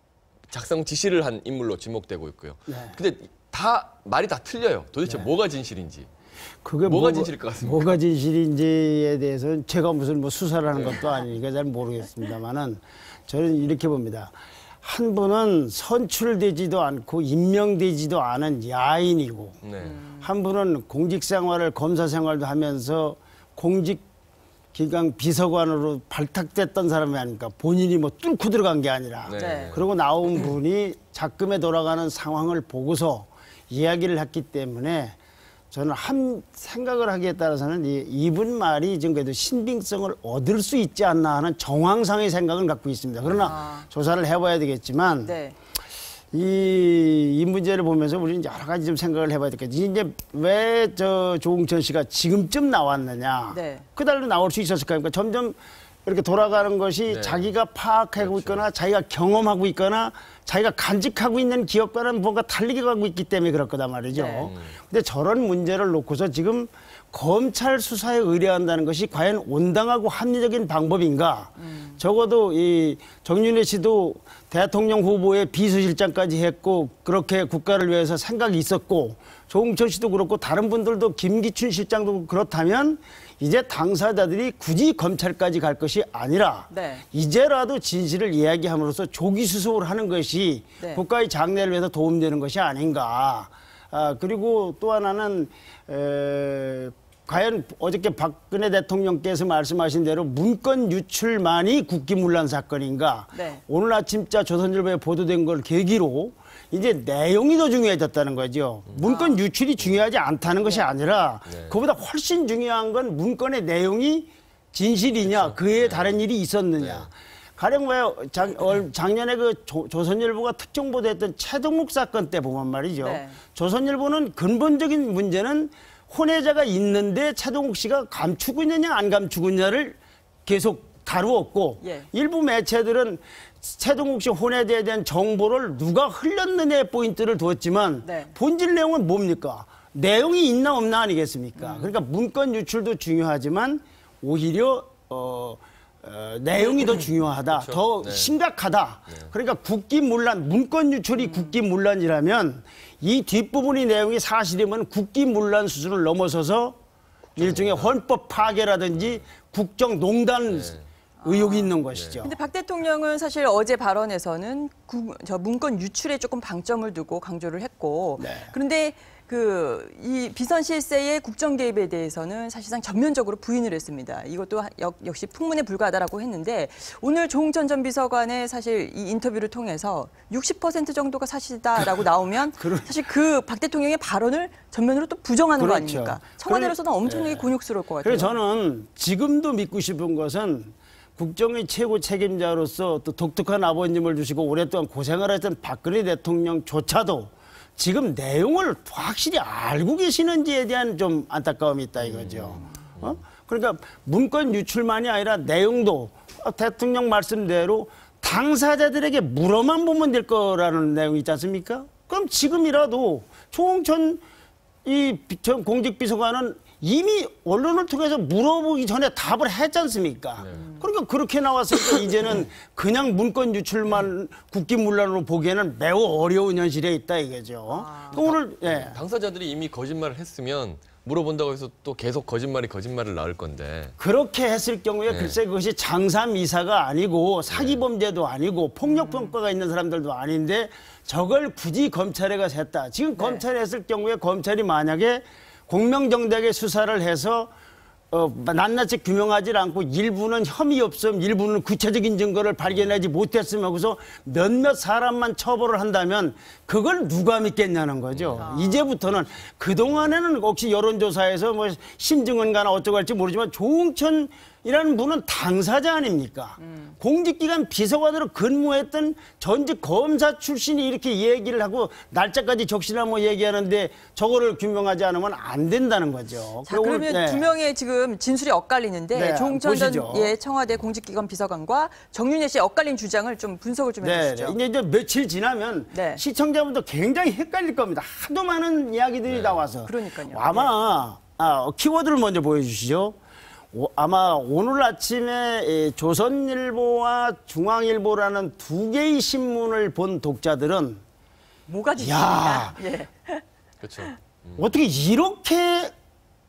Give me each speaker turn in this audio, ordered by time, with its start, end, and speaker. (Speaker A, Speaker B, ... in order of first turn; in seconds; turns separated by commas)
Speaker A: 0.5-6.1, Speaker B: 2.7-3.0, Speaker B: 6.6-19.6, Speaker A: 6.8-7.9, Speaker A: 10.7-11.0, Speaker A: 19.6-20.0, Speaker C: 20.0-20.2, Speaker B: 20.1-24.0, Speaker B: 24.7-35.1, Speaker A: 29.2-29.8, Speaker C: 29.4-29.8, Speaker B: 35.7-45.3, Speaker C: 43.4-43.9, Speaker C: 45.2-45.5, Speaker B: 46.3-156.8, Speaker C: 53.5-53.8, Speaker A: 57.1-57.5, Speaker A: 58.2-58.6, Speaker C: 64.1-64.5, Speaker C: 71.6-72.0, Speaker C: 86.7-87.0, Speaker C: 103.3-103.6, Speaker C: 109.0-109.4, Speaker A: 115.2-116.2, Speaker C: 123.0-123.4, Speaker C: 131.8-132.1, Speaker C: 138.0-138.3, Speaker C: 141.6-141.9, Speaker A: 147.5-148.3, Speaker C: 151.2-151.5, Speaker A: 157.3-157.9, Speaker B: 157.3-162.3, Speaker A: 160.5-160.8, Speaker C: 161.2-188.3, Speaker B: 168.2-168.5, Speaker B: 182.6-182.9, Speaker B: 185.6-214.2, Speaker A: 202.0-203.1, Speaker B: 214.8-229.0, Speaker C: 220.5-220.8, Speaker C: 227.7-228.2, Speaker A: 228.1-233.9, Speaker B: 234.0-247.5, Speaker A: 235.1-235.4, Speaker A: 237.5-237.8, Speaker C: 238.8-239.3, Speaker C: 243.2-243.4, Speaker B: 248.1-277.5, Speaker A: 258.1-258.5, Speaker C: 258.4-258.9, Speaker C: 266.6-266.9, Speaker C: 276.6-284.6, Speaker B: 279.1-280.3, Speaker B: 284.0-293.1, Speaker C: 285.9-286.2, Speaker A: 289.3-289.6, Speaker C: 289.9-290.7, Speaker B: 293.7-301.0, Speaker C: 301.7-303.4, Speaker B: 302.0-302.8, Speaker A: 303.8-304.6, Speaker B: 304.6-305.9